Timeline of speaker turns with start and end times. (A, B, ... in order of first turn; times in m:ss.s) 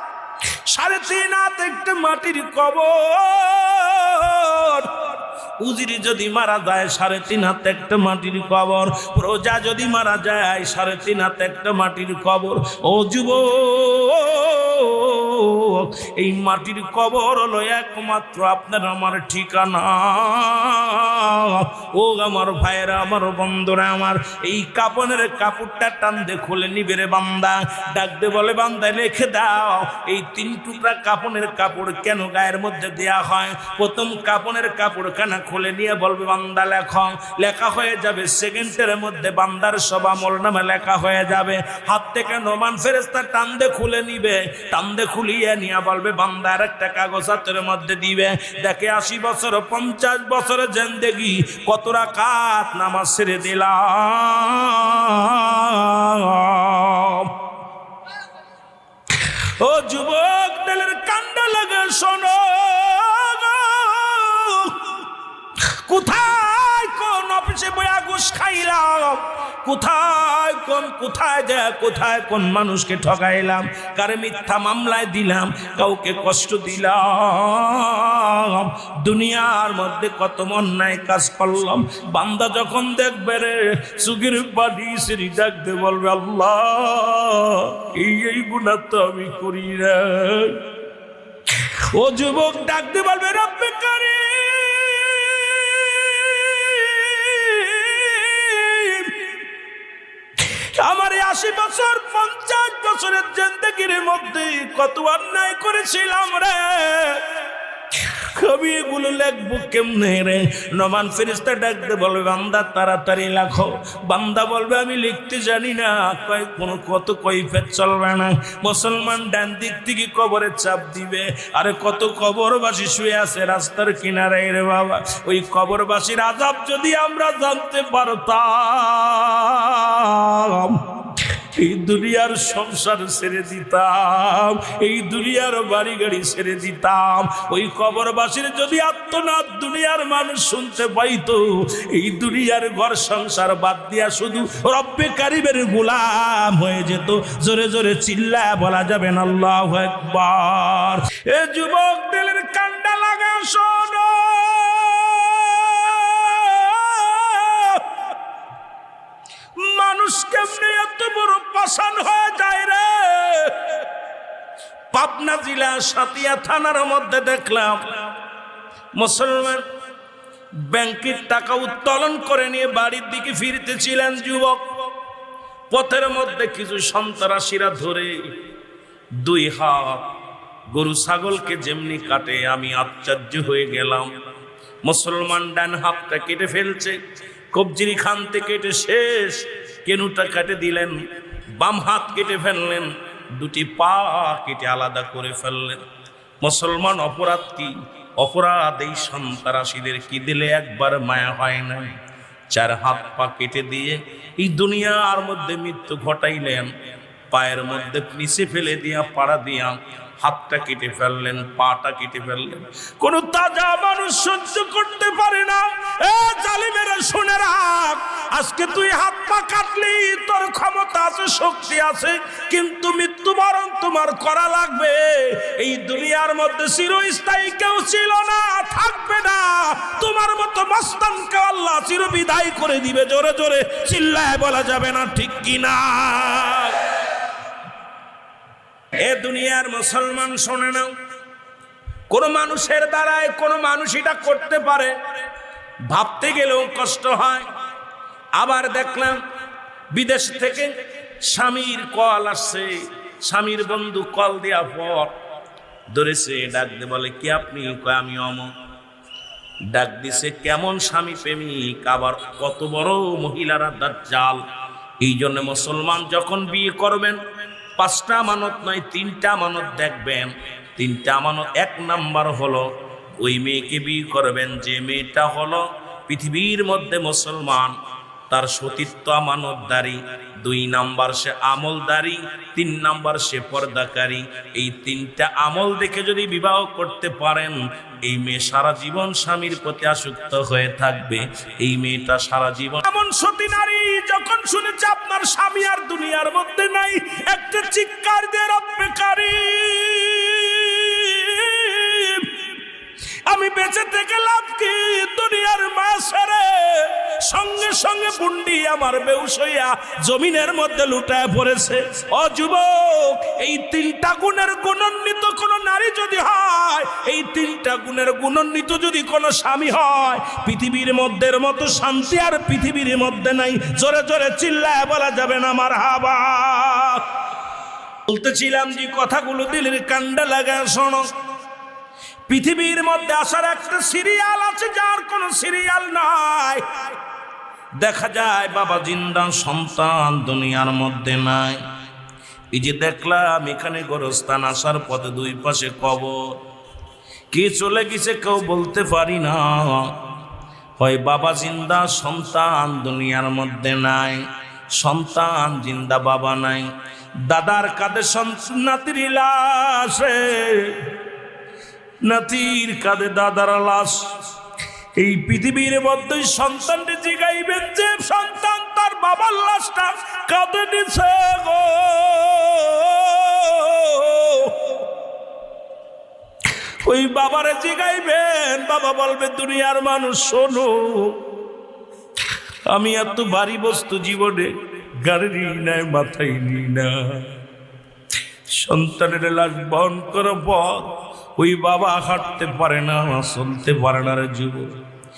0:00.7-0:57.3 A
0:59.2-1:04.9 A
1:05.7-1:30.6 A
1:31.5-1:39.2 A
1:40.4-1:47.2 A
1:47.9-2:37.8 A
2:39.6-2:43.8 A
2:44.9-2:48.1 A
2:49.0-2:49.6 A
2:50.6-2:54.8 A
2:55.7-2:58.2 A
2:59.2-3:00.1 A
3:00.7-3:04.1 A
3:04.8-3:07.0 A
3:07.5-3:11.0 A
3:11.5-3:15.8 A
3:16.4-3:21.9 A
3:22.5-3:26.7 A
3:27.3-3:56.9 A
3:59.0-4:00.9 A
4:02.1-4:04.9 A
4:05.9-4:07.5 A
4:08.4-4:09.2 A
4:09.9-4:15.1 A
4:15.9-4:18.5 A
4:19.7-4:24.4 A
4:25.0-4:27.2 A
4:27.8-4:37.8 A
4:38.3-5:02.5 A
5:03.3-5:27.0 A
5:28.1-5:31.1 A
5:32.3-5:36.8 A
5:37.8-5:41.6 A
5:42.5-5:46.2 A
5:47.3-5:49.9 A
5:50.8-5:54.2 A
5:54.7-5:56.7 A
5:57.2-6:00.9 A
6:02.0-6:04.2 A
6:05.0-6:14.8 A
6:16.8-6:21.2 A
6:22.7-6:27.3 A
6:28.5-6:34.7 A